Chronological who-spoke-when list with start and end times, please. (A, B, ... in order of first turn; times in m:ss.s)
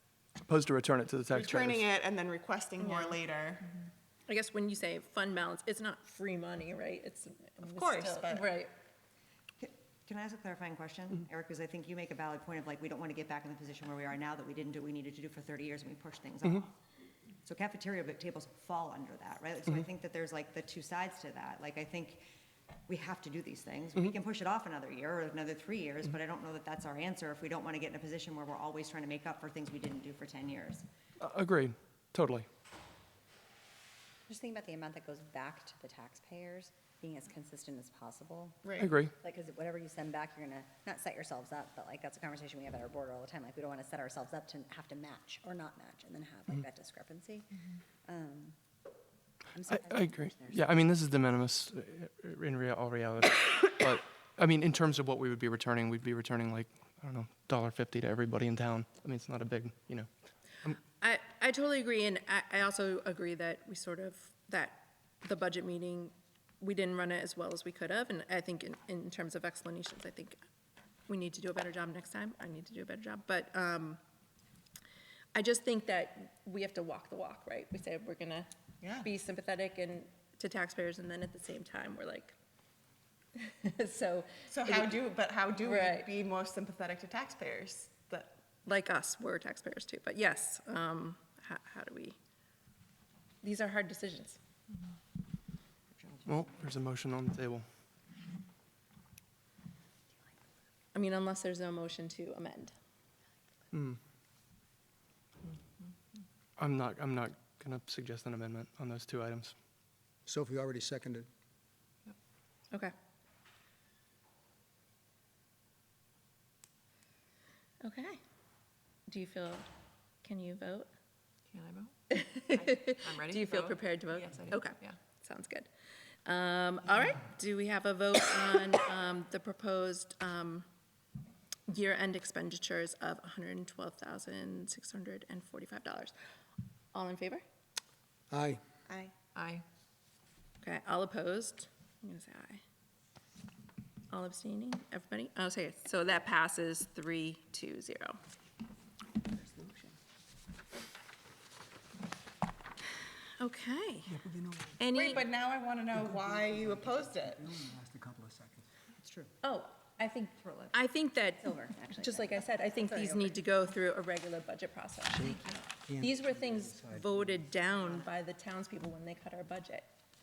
0:00.4-0:01.9 A
0:01.3-0:03.7 B
0:02.8-0:03.2 C
0:04.3-0:08.7 C
0:07.6-0:08.6 B
0:09.6-0:16.7 D
0:17.4-0:22.2 D
0:22.9-0:30.8 D
0:31.2-0:32.5 A
0:34.3-0:47.5 E
0:38.6-0:38.9 B
0:38.8-0:39.1 A
0:48.1-0:48.6 E
0:49.5-0:50.7 E
0:49.7-1:00.1 A
1:01.0-1:10.4 C
1:11.1-1:14.0 C
1:15.3-1:18.5 C
1:18.8-1:19.1 B
1:19.0-1:22.4 C
1:23.4-1:25.0 C
1:24.5-1:28.3 B
1:25.6-1:26.1 C
1:28.6-1:32.2 C
1:33.4-1:34.4 C
1:36.3-1:37.7 A
1:40.9-1:42.7 C
1:43.7-1:44.0 A
1:46.6-1:49.6 A
1:50.3-1:51.3 F
1:57.8-1:58.2 C
1:59.1-1:59.7 C
2:00.2-2:00.9 C
2:01.5-2:01.9 G
2:02.1-2:05.7 C
2:02.5-2:05.0 G
2:06.3-2:10.6 C
2:11.7-2:16.1 C
2:16.9-2:17.4 C
2:18.3-2:18.6 F
2:19.4-2:19.6 G
2:20.6-2:22.6 C
2:24.1-2:28.2 C
2:33.4-2:34.2 C
2:34.1-2:34.8 F
2:34.8-2:35.2 C
2:34.9-2:37.4 B
2:36.0-2:38.7 F
2:39.0-2:39.3 D
2:39.4-2:49.9 C
2:40.4-2:40.7 D
2:41.4-2:43.4 E
2:45.1-2:47.5 F
2:47.7-2:48.1 D